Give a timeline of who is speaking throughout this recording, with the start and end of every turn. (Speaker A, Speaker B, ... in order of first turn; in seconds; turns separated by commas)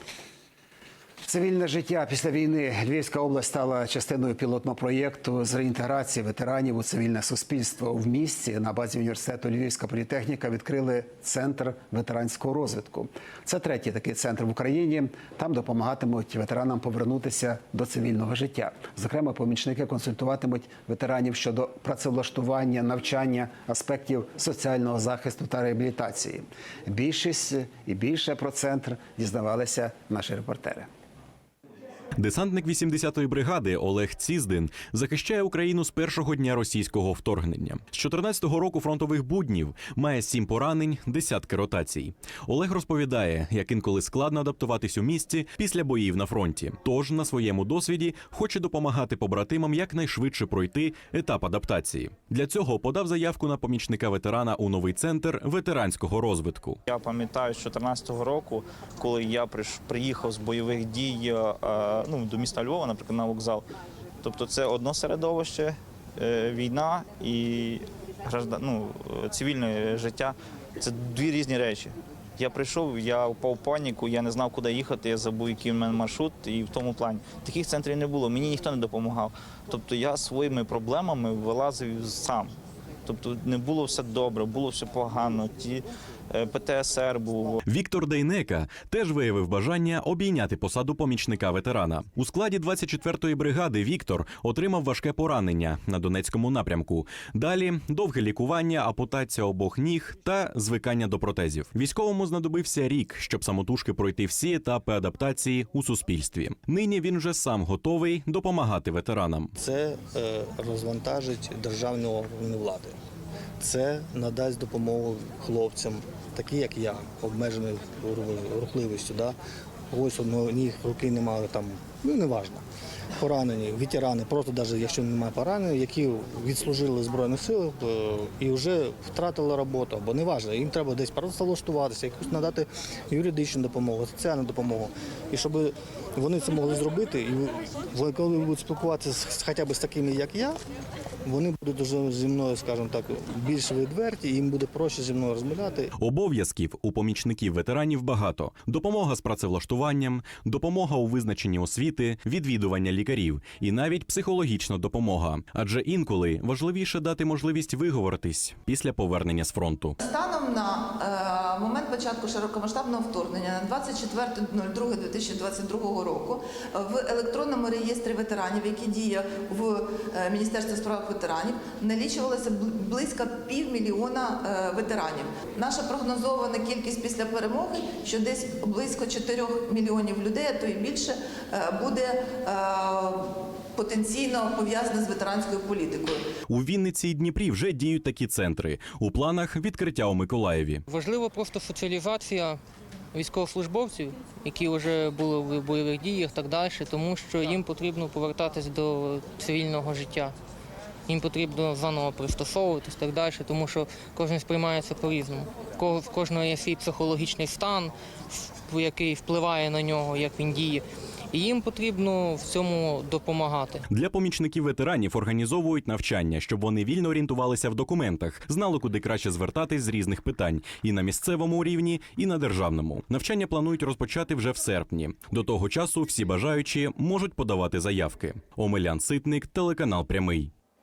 Speaker A: 1.2-30.9, Speaker B: 32.2-56.8, Speaker C: 56.9-63.6, Speaker C: 64.2-82.5, Speaker C: 83.0-87.6, Speaker B: 87.7-109.5, Speaker D: 109.6-113.0, Speaker D: 113.6-119.3, Speaker D: 119.9-122.6, Speaker D: 123.2-140.6, Speaker D: 141.2-145.9, Speaker B: 146.0-159.9, Speaker E: 160.1-181.1, Speaker E: 181.7-183.1, Speaker E: 183.8-186.2, Speaker B: 186.5-190.8, Speaker F: 190.9-192.6, Speaker F: 193.1-200.3, Speaker F: 201.1-213.8, Speaker B: 213.9-230.5